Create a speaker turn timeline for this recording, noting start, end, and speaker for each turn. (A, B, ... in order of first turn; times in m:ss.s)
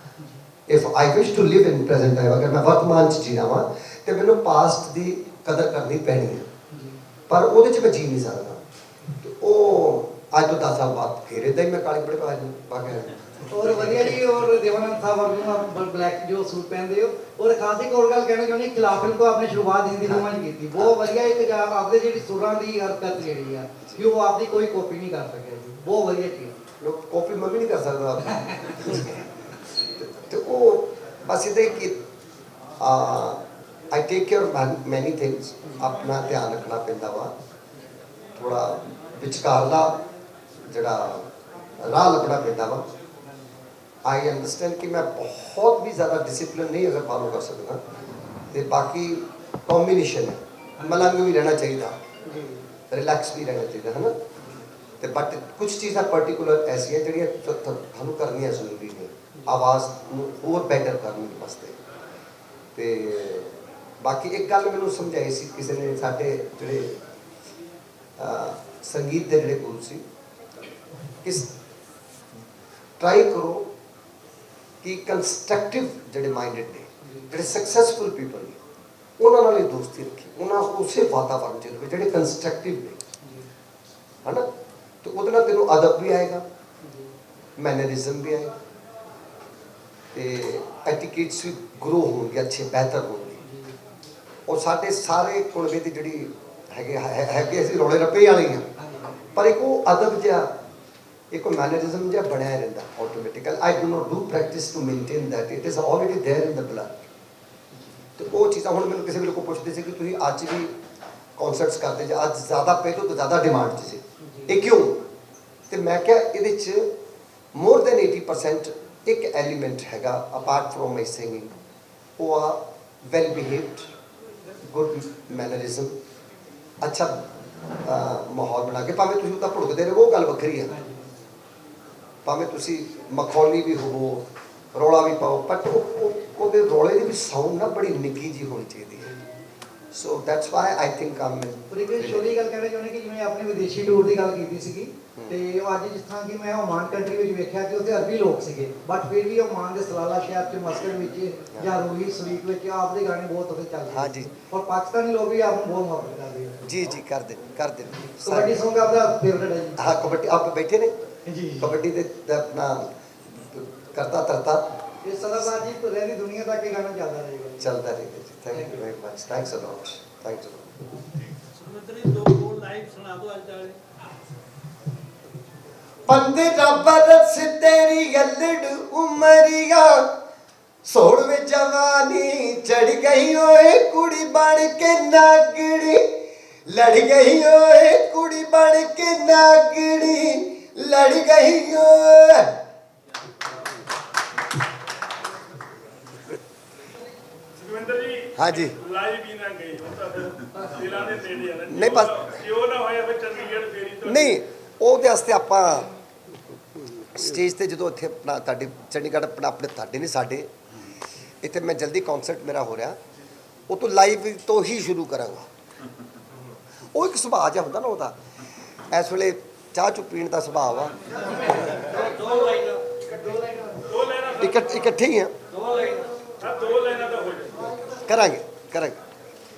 0:00.7-0:06.5 A
0:06.7-0:07.0 B
0:07.3-0:08.6 A
0:09.2-0:14.2 A
0:13.5-0:26.6 B
0:20.0-0:21.0 A
0:23.8-0:24.0 A
0:26.8-0:29.2 A
0:30.0-0:32.0 A
0:32.8-0:33.4 A
0:33.9-0:37.3 A
0:38.4-0:40.0 A
0:40.6-0:41.2 A
0:41.8-0:42.8 A
0:44.0-0:47.8 A
0:48.5-0:52.0 A
0:52.2-0:52.6 B
0:52.9-0:54.1 A
0:55.0-1:01.8 A
1:02.8-1:07.0 A
1:08.2-1:10.0 A
1:11.2-1:11.5 A
1:13.0-1:13.7 A
1:14.8-1:18.6 A
1:17.0-1:17.3 B
1:19.2-1:23.0 A
1:23.2-1:23.5 B
1:25.0-1:26.4 A
1:26.8-1:27.1 B
1:27.6-1:28.5 A
1:30.1-1:33.4 A
1:33.4-1:33.8 B
1:34.5-1:38.7 A
1:38.8-1:39.2 B
1:39.3-1:40.5 A
1:41.3-1:47.0 A
1:48.2-1:50.7 A
1:51.4-1:55.0 A
1:54.2-1:54.5 B
1:55.7-1:56.9 A
1:57.5-2:01.5 A
2:02.2-2:03.9 A
2:04.7-2:05.9 A
2:06.8-2:07.2 A
2:07.8-2:10.8 A
2:10.7-2:11.1 B
2:12.2-2:19.1 A
2:19.0-2:19.4 B
2:19.9-2:22.3 A
2:21.7-2:36.6 B
2:33.9-2:34.3 A
2:36.6-2:38.6 A
2:38.2-2:40.1 B
2:39.8-2:41.0 A
2:41.2-2:41.7 B
2:41.6-2:44.7 A
2:45.0-2:47.7 B
2:47.6-2:50.8 A
2:48.5-2:48.8 B
2:51.5-2:53.8 C
2:56.0-3:00.0 A
3:00.8-3:06.0 A
3:06.7-3:12.5 A
3:17.6-3:24.2 D
3:18.4-3:18.8 A
3:21.7-3:22.3 A
3:24.0-3:25.9 A
3:27.2-3:30.5 A
3:31.4-3:33.0 A
3:33.7-3:35.5 A
3:36.9-3:38.2 A
3:38.9-3:41.8 A
3:41.4-3:43.9 B
3:43.9-3:44.7 D
3:44.4-3:45.3 A
3:45.5-3:46.2 B
3:46.4-3:47.7 D
3:47.8-3:49.0 A